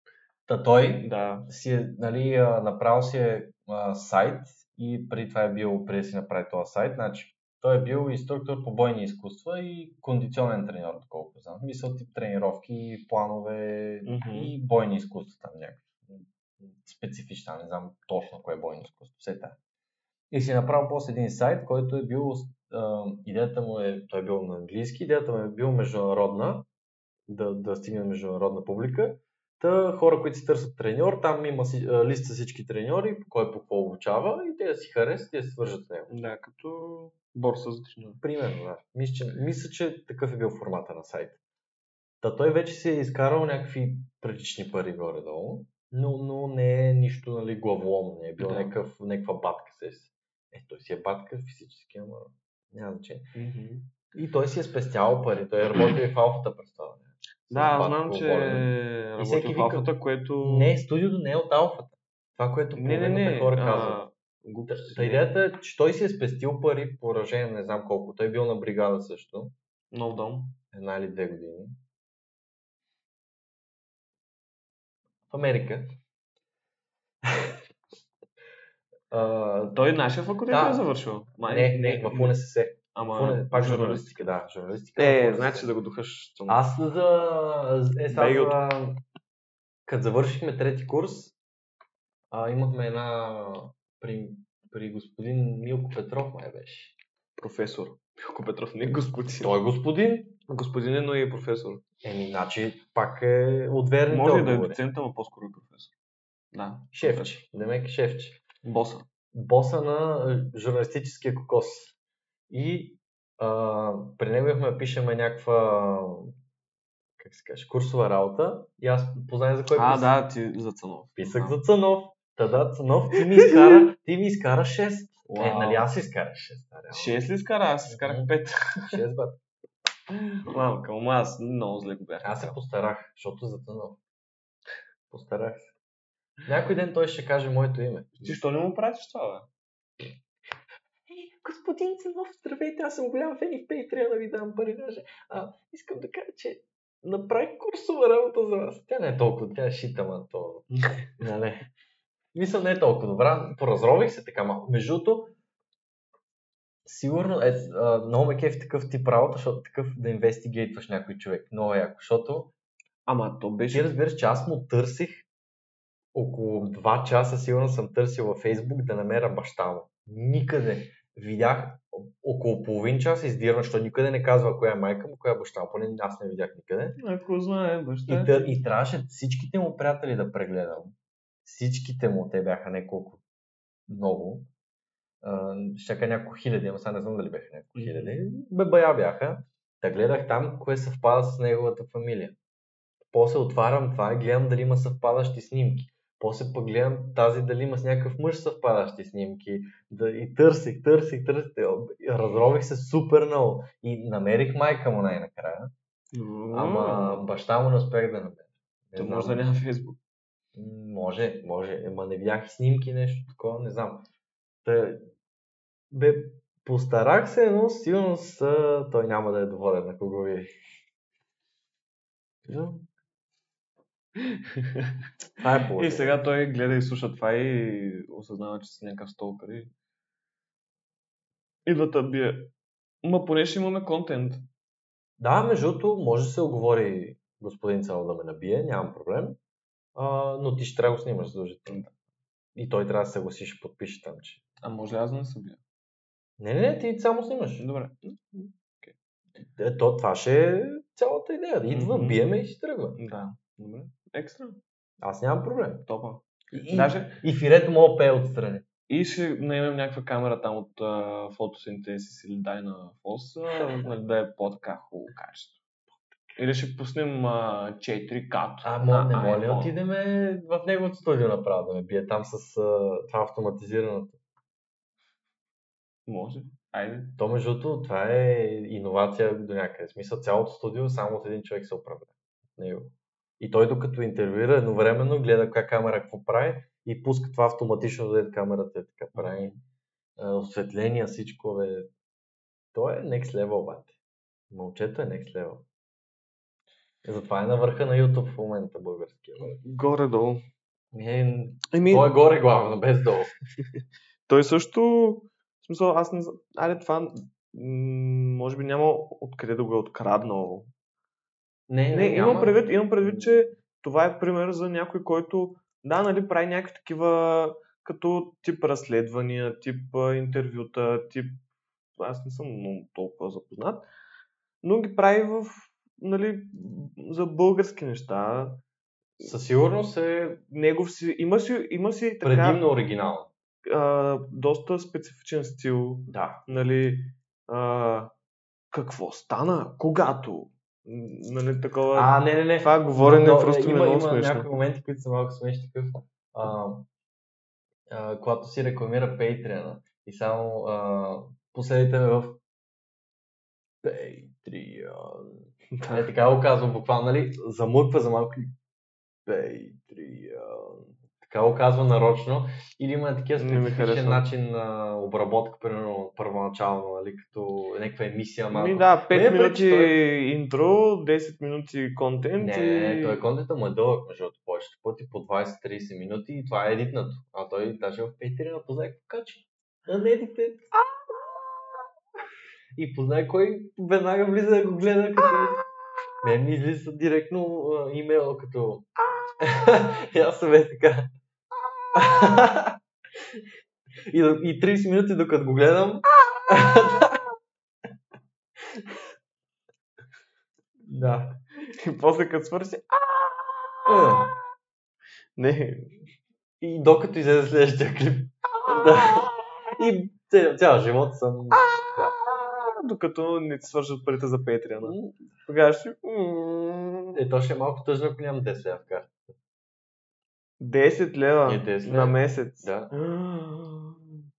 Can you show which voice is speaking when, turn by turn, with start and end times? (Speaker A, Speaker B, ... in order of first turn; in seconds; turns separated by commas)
Speaker A: 0.5-19.6, Speaker B: 1.0-1.5, Speaker B: 14.1-14.5, Speaker A: 20.3-26.6, Speaker A: 27.3-36.1, Speaker B: 36.1-38.2, Speaker A: 38.2-41.4, Speaker A: 42.2-53.3, Speaker B: 48.4-48.7, Speaker B: 53.3-53.9, Speaker A: 54.1-64.0, Speaker B: 57.5-60.7, Speaker B: 62.7-65.3, Speaker A: 64.7-69.5, Speaker B: 69.9-70.6, Speaker A: 70.7-71.8, Speaker A: 75.3-75.9, Speaker A: 79.1-79.8, Speaker B: 79.7-82.3, Speaker A: 80.5-80.9, Speaker A: 81.4-85.7, Speaker B: 82.9-84.3, Speaker B: 85.0-86.7, Speaker A: 86.5-89.0, Speaker B: 88.1-88.7, Speaker A: 89.8-91.3, Speaker A: 92.3-96.9, Speaker B: 97.4-99.5, Speaker A: 99.4-100.4, Speaker B: 100.5-101.8, Speaker A: 102.0-104.8, Speaker B: 104.1-105.9, Speaker B: 106.5-107.4, Speaker A: 106.9-108.4, Speaker B: 108.6-109.1, Speaker A: 109.3-111.9, Speaker A: 112.5-116.3, Speaker A: 117.2-120.1, Speaker B: 119.7-121.6, Speaker A: 121.2-127.2, Speaker B: 123.4-123.9, Speaker B: 125.3-125.9, Speaker B: 126.9-129.0, Speaker A: 127.9-128.3, Speaker A: 128.8-129.4, Speaker B: 130.1-132.6, Speaker A: 132.2-134.0, Speaker A: 135.1-135.7, Speaker A: 136.4-138.4, Speaker B: 138.2-139.5, Speaker A: 141.1-151.7, Speaker A: 152.3-155.3, Speaker A: 156.8-162.5, Speaker B: 163.0-163.9, Speaker A: 163.7-165.2, Speaker A: 166.1-177.0, Speaker B: 177.0-178.3, Speaker A: 178.1-183.2, Speaker A: 183.9-184.5, Speaker A: 185.2-192.4, Speaker B: 187.7-188.2, Speaker A: 193.1-205.7, Speaker B: 206.1-207.3, Speaker A: 206.5-209.6, Speaker B: 208.9-210.0, Speaker A: 210.5-214.1, Speaker A: 214.6-215.1, Speaker A: 215.9-220.5, Speaker A: 222.5-222.8, Speaker B: 224.2-225.0, Speaker A: 225.4-226.2, Speaker B: 225.8-229.7, Speaker B: 231.6-232.5, Speaker B: 233.0-234.4, Speaker A: 235.2-239.4, Speaker A: 239.9-241.9, Speaker A: 242.5-244.4, Speaker B: 244.6-245.6, Speaker A: 246.4-247.7, Speaker B: 247.6-248.9, Speaker A: 249.4-253.0, Speaker B: 251.7-252.2, Speaker B: 252.9-254.6, Speaker A: 255.0-255.8, Speaker B: 255.8-257.2, Speaker A: 256.5-258.6, Speaker B: 258.9-265.6, Speaker B: 266.4-269.7, Speaker A: 268.6-274.2, Speaker B: 276.1-277.1, Speaker A: 277.2-289.6, Speaker B: 289.1-289.5, Speaker A: 290.2-291.9, Speaker A: 292.7-293.9, Speaker A: 294.5-295.6, Speaker A: 297.0-299.6, Speaker B: 299.4-300.4, Speaker A: 300.9-303.3, Speaker B: 301.7-302.1, Speaker B: 303.6-310.7, Speaker A: 311.7-313.5, Speaker B: 311.9-321.4, Speaker B: 322.0-323.8, Speaker B: 324.6-328.6, Speaker A: 329.2-330.4, Speaker B: 330.5-332.6, Speaker A: 332.2-333.3, Speaker B: 333.6-338.1, Speaker A: 336.1-336.5, Speaker B: 338.7-344.5, Speaker A: 341.9-346.9, Speaker A: 347.9-352.4, Speaker A: 353.8-358.5, Speaker B: 355.8-356.1, Speaker A: 359.2-370.0, Speaker B: 363.4-364.3, Speaker B: 368.5-373.2, Speaker A: 372.4-380.7, Speaker A: 382.8-385.6, Speaker A: 386.2-391.1, Speaker A: 391.9-392.8, Speaker A: 394.1-397.3, Speaker A: 400.9-401.4, Speaker B: 401.6-404.3, Speaker A: 403.9-404.3, Speaker B: 405.4-406.0, Speaker A: 406.6-412.1, Speaker B: 408.6-409.4, Speaker B: 411.5-417.2, Speaker A: 414.8-415.1, Speaker A: 417.1-419.2, Speaker B: 420.6-424.2, Speaker A: 421.4-422.9